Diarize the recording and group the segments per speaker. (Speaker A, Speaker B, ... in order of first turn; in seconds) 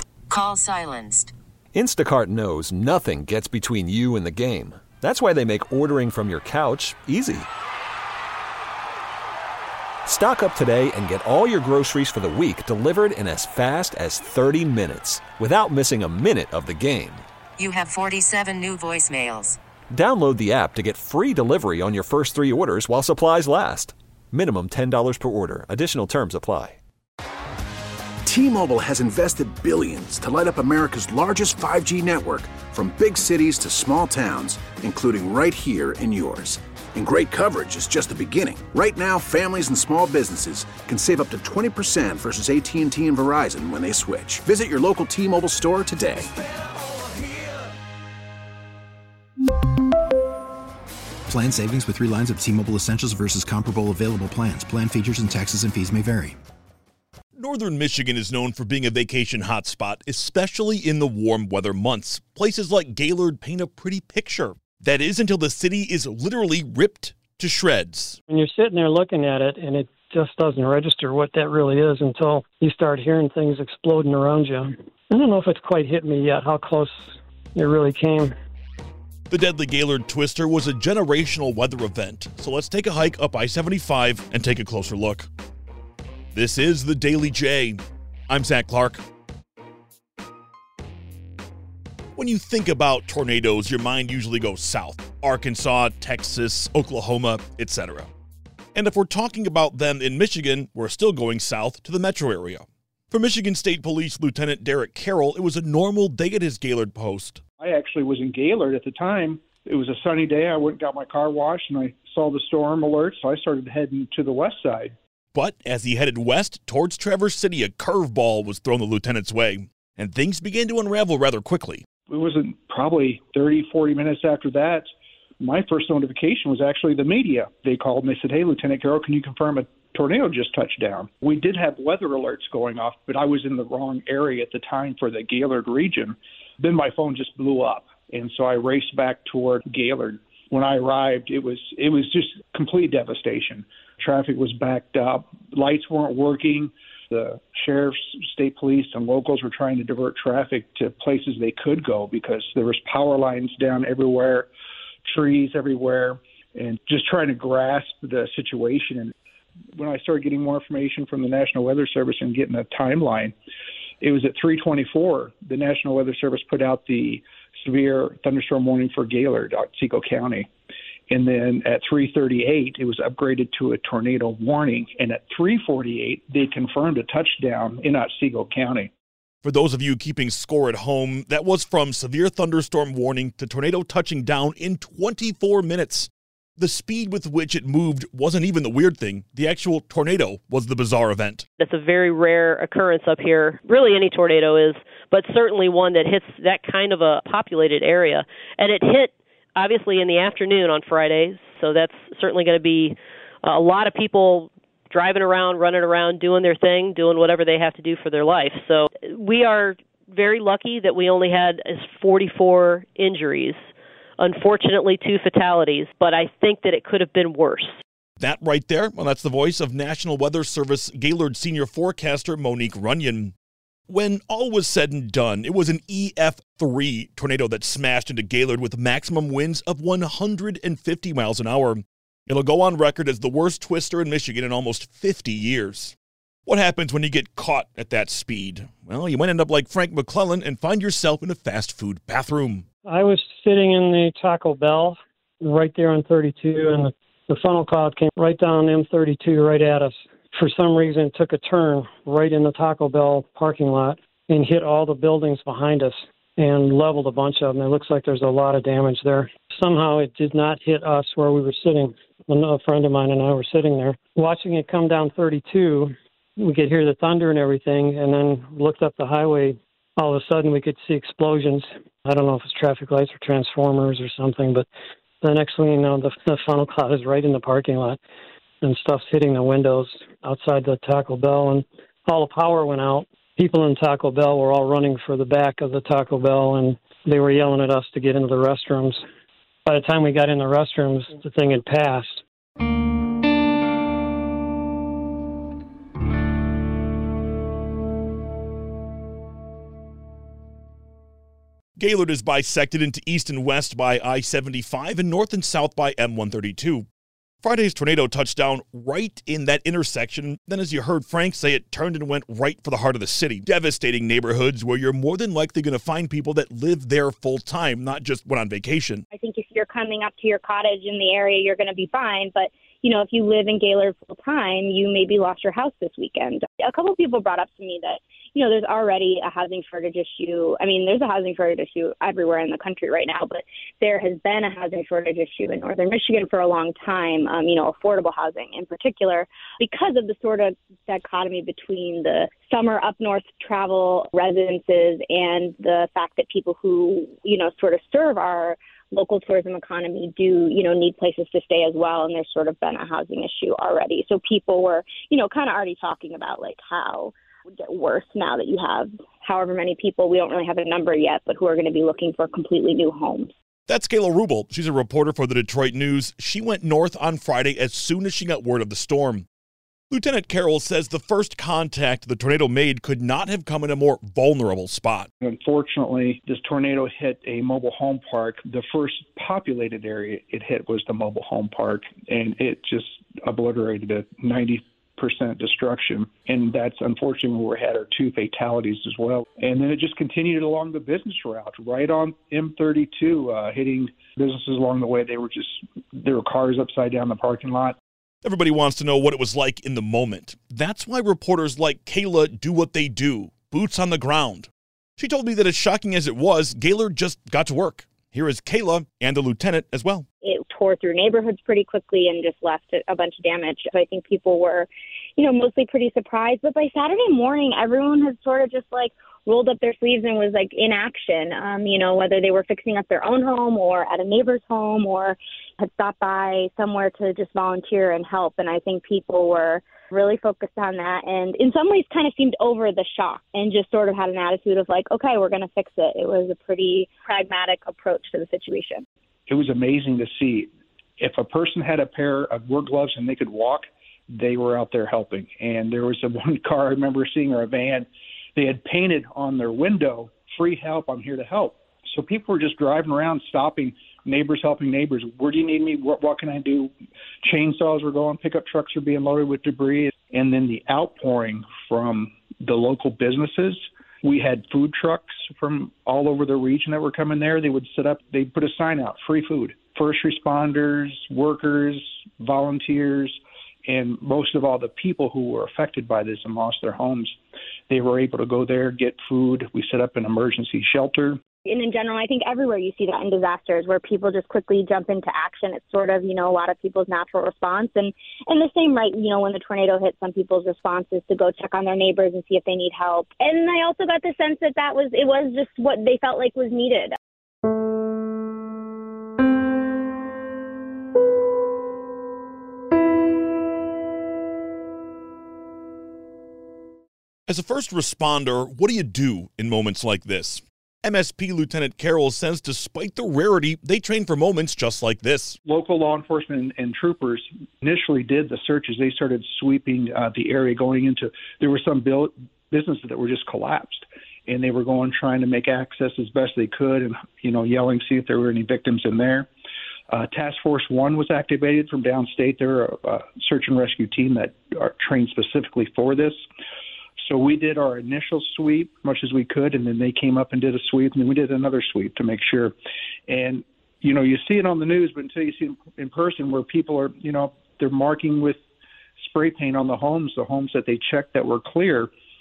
Speaker A: 0.3-1.3, 17.6-19.6
Speaker B: 1.7-7.5, 10.1-17.2, 19.9-26.8
Speaker C: 28.2-46.3
Speaker D: 51.3-56.4
Speaker E: 57.4-68.2, 79.3-85.3, 86.3-89.0, 92.2-98.1, 98.7-107.4, 115.3-121.8, 179.4-191.4, 218.2-223.3, 223.9-235.9, 236.4-242.6, 301.8-306.9, 307.4-319.0, 363.7-369.2, 369.9-375.1, 398.2-410.0, 507.3-515.4
Speaker F: 68.3-78.3, 242.8-274.7, 275.2-278.0, 278.6-289.0, 289.6-292.2
Speaker G: 107.6-114.9, 122.1-124.9, 125.4-154.5, 155.0-159.1, 159.8-163.3, 164.0-170.5, 171.1-178.9, 375.2-397.8, 439.3-456.7, 457.2-477.1, 477.7-481.2, 515.4-529.3, 529.9-536.2, 537.0-542.5, 543.1-548.4, 549.0-551.9
Speaker H: 191.6-213.6, 214.2-217.8
Speaker I: 319.1-363.3, 410.2-438.8, 481.4-496.9